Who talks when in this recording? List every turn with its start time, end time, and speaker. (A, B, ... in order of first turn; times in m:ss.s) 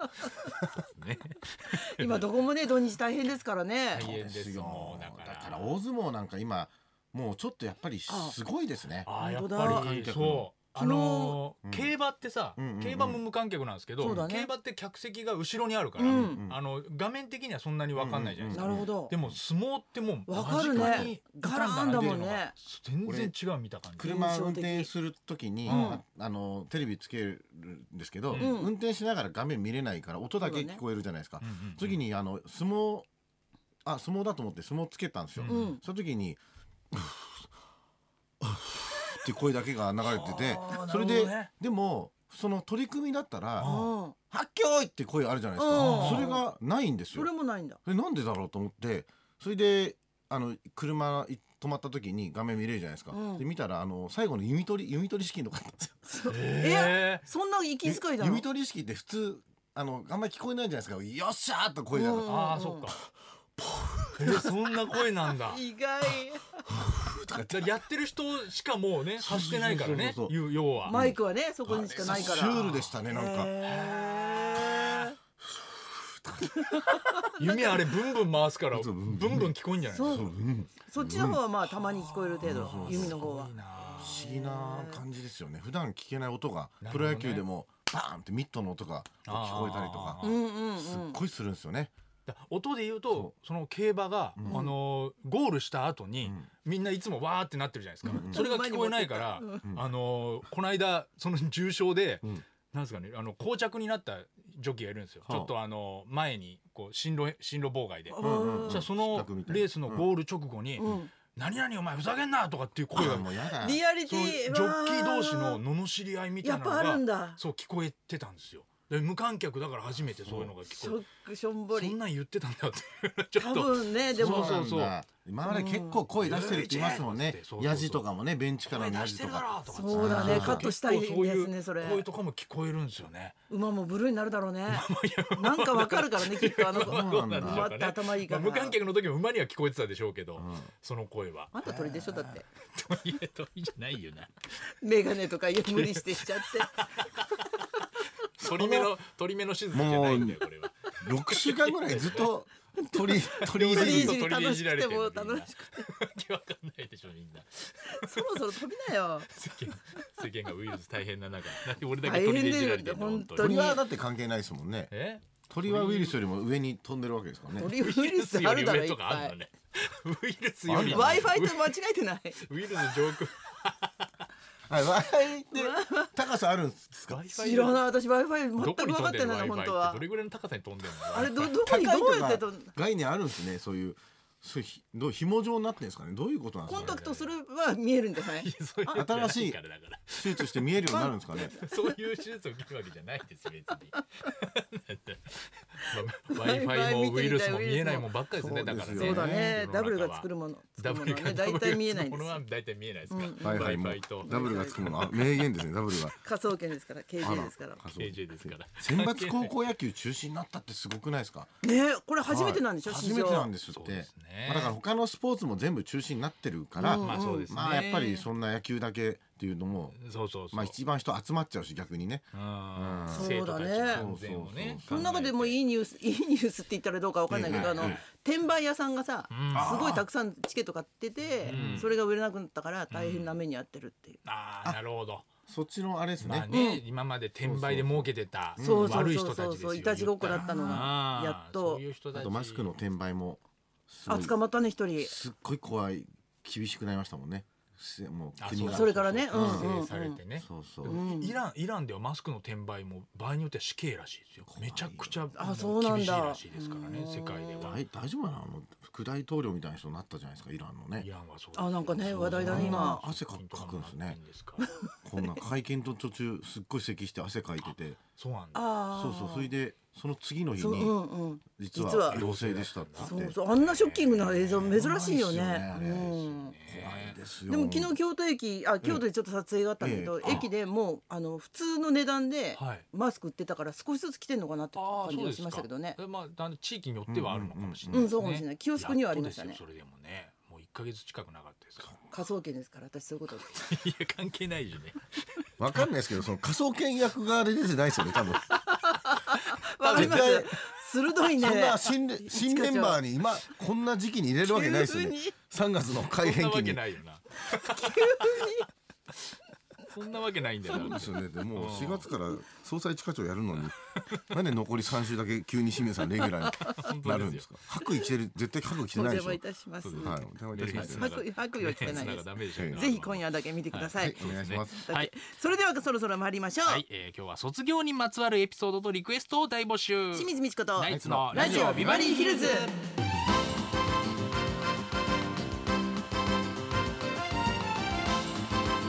0:00.5-0:00.8 A
0:00.7-0:02.4 B
0:01.8-0:04.1 C
0:03.9-0:05.7 B
0:04.0-0:10.5 A
0:08.1-0:08.4 C
0:09.0-0:24.1 B
0:09.2-0:09.9 C
0:10.8-0:11.4 C
0:11.6-0:11.9 A
0:12.6-0:13.2 A
0:14.0-0:14.5 C
0:14.0-0:14.3 A
0:16.0-0:16.4 C
0:16.0-0:16.6 A
0:17.9-0:19.3 A
0:18.5-0:19.1 C
0:20.3-0:22.5 C
0:20.7-0:21.1 A
0:23.0-0:23.3 A
0:24.0-0:33.1 A
0:24.0-0:24.9 C
0:25.7-0:26.0 B
0:25.7-0:26.0 C
0:28.3-0:28.6 B
0:28.3-0:28.7 C
0:30.4-0:30.8 C
0:31.4-0:32.0 B
0:33.8-0:36.4 A
0:35.4-0:35.7 B
0:35.5-0:35.8 C
0:36.9-0:37.5 A
0:38.4-0:43.7 A
0:40.0-0:41.5 B
0:43.6-0:43.9 B
0:43.6-0:44.1 C
0:44.3-0:47.3 A
0:45.6-0:46.4 C
0:45.7-0:46.3 B
0:47.1-0:47.8 C
0:47.8-0:56.1 A
0:53.1-0:53.4 C
0:56.1-0:58.4 C
0:56.2-0:57.2 B
0:57.8-1:02.3 A
1:01.9-1:02.9 C
1:02.2-1:03.1 B
1:03.6-1:04.5 A
1:04.2-1:05.6 B
1:04.2-1:06.6 C
1:06.7-1:11.0 B
1:06.9-1:07.7 A
1:09.2-1:13.5 A
1:10.9-1:15.1 C
1:12.0-1:13.0 B
1:13.6-1:15.1 B
1:15.4-1:16.7 A
1:16.5-1:17.8 C
1:16.9-1:20.3 B
1:18.7-1:21.4 A
1:19.9-1:20.3 C
1:20.8-1:25.0 C
1:21.7-1:24.2 B
1:22.4-1:23.3 A
1:24.0-1:30.2 A
1:26.8-1:27.4 B
1:29.2-1:30.4 B
1:30.2-1:31.2 C
1:30.8-1:31.9 A
1:32.3-1:53.5 B
1:34.4-1:34.7 A
1:34.4-1:34.7 C
1:36.2-1:36.5 A
1:38.0-1:38.4 A
1:38.0-1:39.6 C
1:45.2-1:45.5 A
1:48.1-1:48.8 C
1:48.2-1:50.1 A
1:50.8-1:51.1 C
1:52.9-1:53.8 A
1:53.6-1:55.6 C
1:54.0-2:01.0 B
1:56.4-1:57.4 C
2:00.2-2:00.5 A
2:00.6-2:02.0 C
2:01.7-2:04.9 B
2:03.4-2:04.6 C
2:04.1-2:10.7 A
2:05.4-2:07.0 C
2:06.2-2:08.0 B
2:08.7-2:13.4 B
2:09.7-2:12.0 C
2:13.5-2:18.8 C
2:14.7-2:21.6 B
2:16.7-2:17.7 A
2:20.4-2:20.7 A
2:21.5-2:22.4 C
2:21.6-2:22.2 A
2:22.1-2:24.3 B
2:24.8-2:26.9 C
2:25.6-2:32.3 B
2:28.4-2:29.0 A
2:29.7-2:30.4 A
2:31.0-2:34.2 A
2:32.8-2:35.9 C
2:33.4-2:38.6 B
2:37.8-2:39.3 C
2:39.3-2:43.7 B
2:42.0-2:43.8 C
2:43.4-2:44.9 A
2:44.9-2:46.2 B
2:45.5-2:47.7 A
2:47.6-2:49.3 C
2:47.6-2:51.8 B
2:50.6-2:51.3 A
2:50.9-2:52.4 C
2:52.4-2:54.1 B
2:54.7-2:57.2 A
2:55.6-2:56.1 C
2:57.0-2:57.9 B
2:57.3-3:00.0 C
2:58.6-3:01.6 B
3:01.1-3:02.7 C
3:01.4-3:07.0 A
3:06.7-3:07.3 B
3:06.7-3:08.5 C
3:08.4-3:10.9 B
3:08.9-3:09.6 A
3:10.1-3:11.5 A
3:10.9-3:11.9 C
3:11.5-3:25.4 B
3:16.3-3:18.1 C
3:18.4-3:19.6 A
3:18.9-3:22.4 C
3:23.1-3:24.9 C
3:23.4-3:26.2 A
3:26.2-3:27.8 C
3:27.2-3:31.5 A
3:27.9-3:29.5 B
3:31.6-3:33.5 C
3:32.2-3:40.0 A
3:33.7-3:34.7 B
3:36.8-3:37.5 C
3:37.0-3:38.3 B
3:39.9-3:40.8 B
3:40.5-3:43.3 A
3:42.3-3:45.6 B
3:43.1-3:44.1 C
3:43.9-3:45.1 A
3:44.8-3:54.2 C
3:47.3-3:48.0 A
3:47.5-3:48.0 B
3:49.3-3:50.0 B
3:49.5-3:50.0 A
3:51.4-3:51.9 B
3:51.5-3:51.9 A
3:52.9-3:53.4 B
3:54.2-3:55.3 B
3:55.5-3:56.5 A
3:56.2-4:02.7 B
3:56.5-3:56.8 C
3:57.4-3:59.1 A
3:58.6-4:01.8 C
4:00.4-4:00.9 A
4:02.1-4:04.3 A
4:04.1-4:05.2 C
4:05.0-4:11.0 A
4:08.4-4:17.8 B
4:08.6-4:10.2 C
4:10.8-4:11.4 C
4:14.4-4:15.2 A
4:15.4-4:17.7 C
4:17.6-4:21.1 A
4:21.0-4:24.7 B
4:21.5-4:23.0 C
4:22.0-4:24.2 A
4:25.0-4:28.0 A
4:28.2-4:28.6 B
4:28.5-4:29.5 C
4:28.9-4:33.4 A
4:30.6-4:32.2 C
4:32.0-4:35.2 B
4:33.0-4:36.6 C
4:34.7-4:37.9 A
4:36.0-4:37.2 B
4:37.5-4:46.0 C
4:39.8-4:40.5 A
4:40.2-4:40.5 B
4:42.5-4:42.8 B
4:44.7-4:51.9 B
4:47.1-4:48.1 A
4:47.9-4:49.6 C
4:52.1-4:53.7 C
4:53.5-4:55.8 B
4:55.6-4:58.5 A
4:58.1-5:00.4 B
4:58.7-5:03.0 C
4:59.9-5:00.5 A
5:01.4-5:06.8 A
5:04.4-5:05.3 C
5:06.0-5:08.6 B
5:07.4-5:08.7 C
5:09.3-5:12.2 B
5:10.7-5:13.8 A
5:13.7-5:14.2 B
5:14.3-5:19.4 A
5:16.6-5:17.5 B
5:18.9-5:20.2 C
5:19.8-5:25.1 B
5:20.0-5:21.2 A
5:20.7-5:24.2 C
5:22.5-5:22.8 A
5:24.0-5:24.9 A
5:24.8-5:26.8 C
5:26.6-5:32.8 B
5:30.1-5:32.7 C
5:30.9-5:32.2 A